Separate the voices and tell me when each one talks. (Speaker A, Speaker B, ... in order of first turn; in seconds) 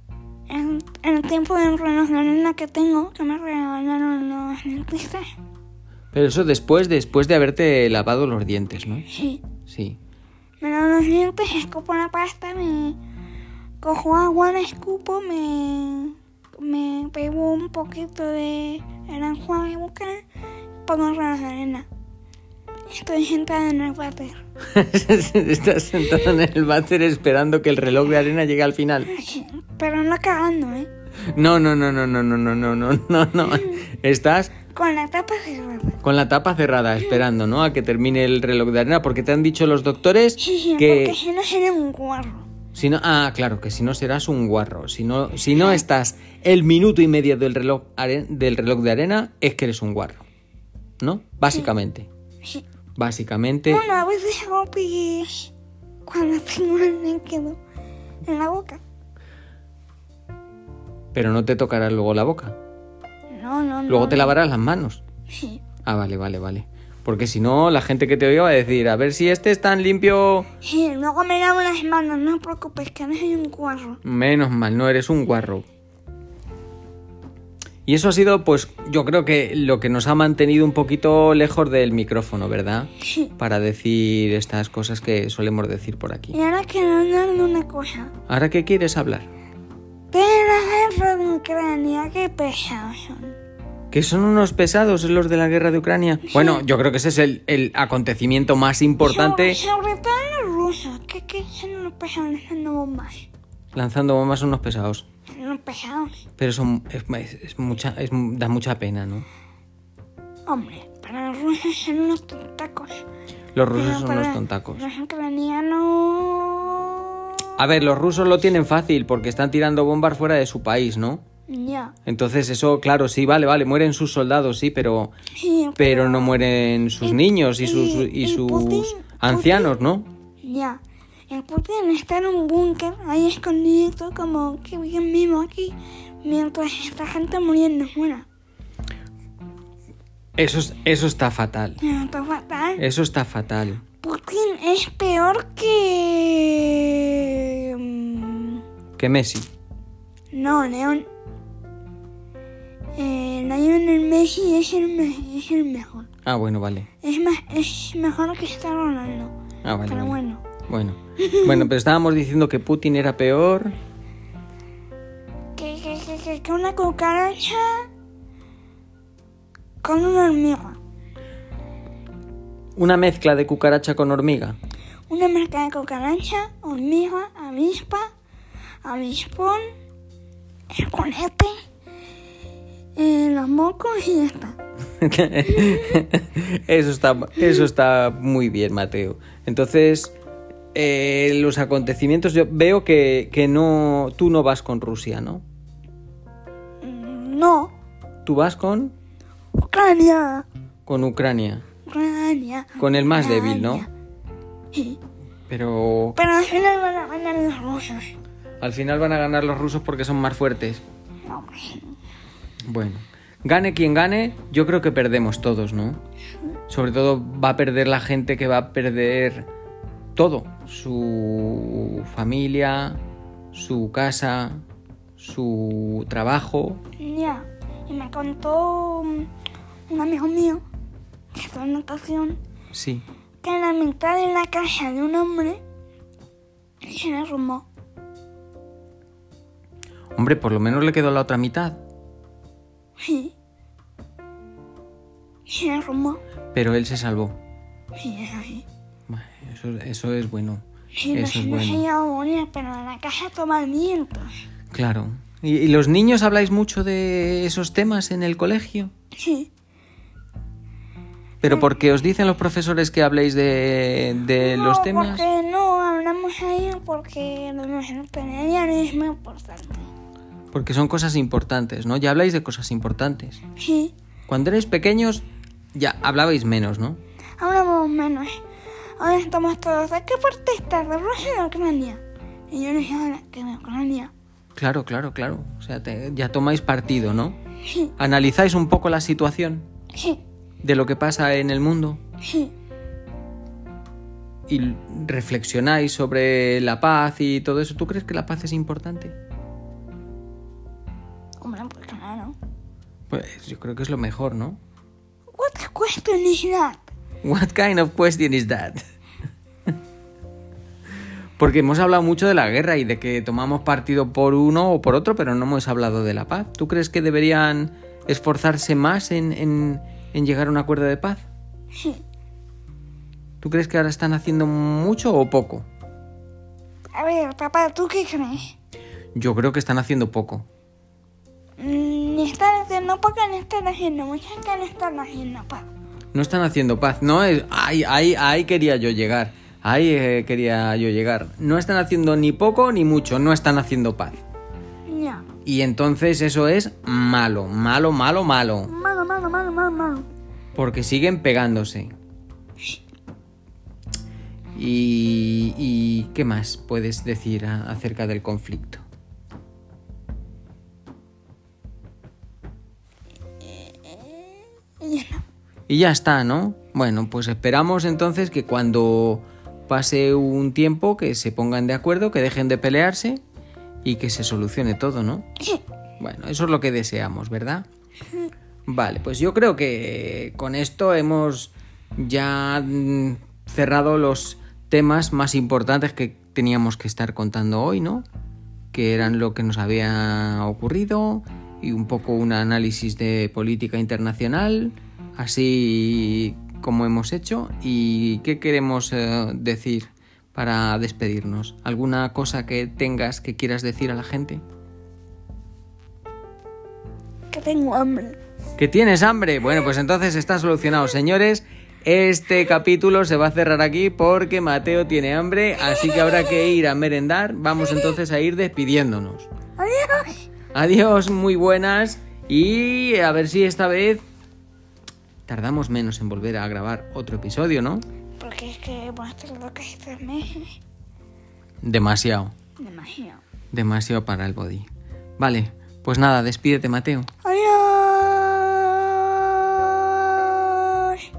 Speaker A: 0.5-5.2, 9.1-9.4, 10.6-13.0, 13.8-20.2, 20.9-21.9, 22.9-24.4, 29.1-30.9, 34.7-36.0, 40.4-42.5, 53.7-55.5, 56.1-57.6, 58.2-58.8, 63.3-64.4, 65.3-65.6, 70.6-74.0, 86.3-88.1, 90.1-93.4, 96.3-96.6, 99.0-103.3, 105.3-106.2, 110.5-113.0, 113.7-117.3, 121.5-122.0, 125.4-126.4, 127.0-129.7, 130.4-138.3, 141.8-142.8, 144.0-148.6, 150.3-151.1, 153.0-156.1, 157.0-159.3, 159.9-160.4, 161.2-161.7, 165.6-167.9, 169.8-170.8, 175.1-178.1, 178.8-179.6, 180.7-181.5, 183.0-184.6, 196.8-197.7, 199.6-200.5, 201.9-203.9, 204.7-205.0, 206.2-208.1, 211.3-211.9, 227.0-229.3, 229.9-230.6, 231.3-232.4, 233.4-235.6, 236.8-237.7, 243.0-243.3, 245.5-246.2, 247.9-248.7, 251.0-254.3, 259.2-259.5, 261.4-261.7, 264.4-269.9, 273.6-273.9, 277.4-278.4, 279.0-284.1, 292.2-292.5, 301.4-302.4, 305.3-306.9, 326.9-328.5, 331.6-335.7, 344.9-345.3, 348.7-350.1, 363.4-365.2, 407.3-408.2, 419.6-420.2, 428.2-430.6, 432.6-433.2, 437.2-441.0
Speaker B: 6.1-9.1, 9.7-10.0, 24.7-29.1, 31.3-34.5, 36.0-41.2, 42.7-50.2, 51.0-52.1, 53.0-53.9, 61.1-62.6, 63.9-65.0, 65.8-70.5, 74.0-75.7, 77.9-86.4, 88.3-89.3, 93.9-99.6, 103.7-105.1, 106.4-109.3, 113.5-114.9, 117.6-121.2, 122.1-125.1, 125.8-130.1, 140.4-141.8, 142.8-143.8, 149.0-149.5, 156.3-156.9, 159.6-163.8, 172.8-174.6, 185.0-190.1, 190.7-195.4, 198.2-198.9, 200.9-201.6, 202.8-203.9, 205.5-206.2, 208.6-210.8, 212.7-216.0, 216.7-219.5, 220.2-223.0, 223.5-224.6, 225.2-226.8, 232.7-233.0, 240.2-241.8, 246.5-247.4, 249.1-251.8, 254.7-258.9, 261.4-265.3, 270.5-273.4, 274.3-277.0, 284.6-287.4, 288.0-289.7, 290.6-292.0, 294.5-299.2, 303.1-304.6, 307.2-308.8, 311.4-321.3, 323.4-325.7, 329.1-330.5, 336.1-344.2, 345.5-348.7, 350.6-351.9, 354.6-358.8, 365.7-373.2, 373.8-375.3, 376.0-377.7, 378.7-388.1, 388.7-404.4, 408.6-419.3, 420.5-424.0, 425.3-427.9, 431.6-432.3, 433.5-434.7, 435.2-437.1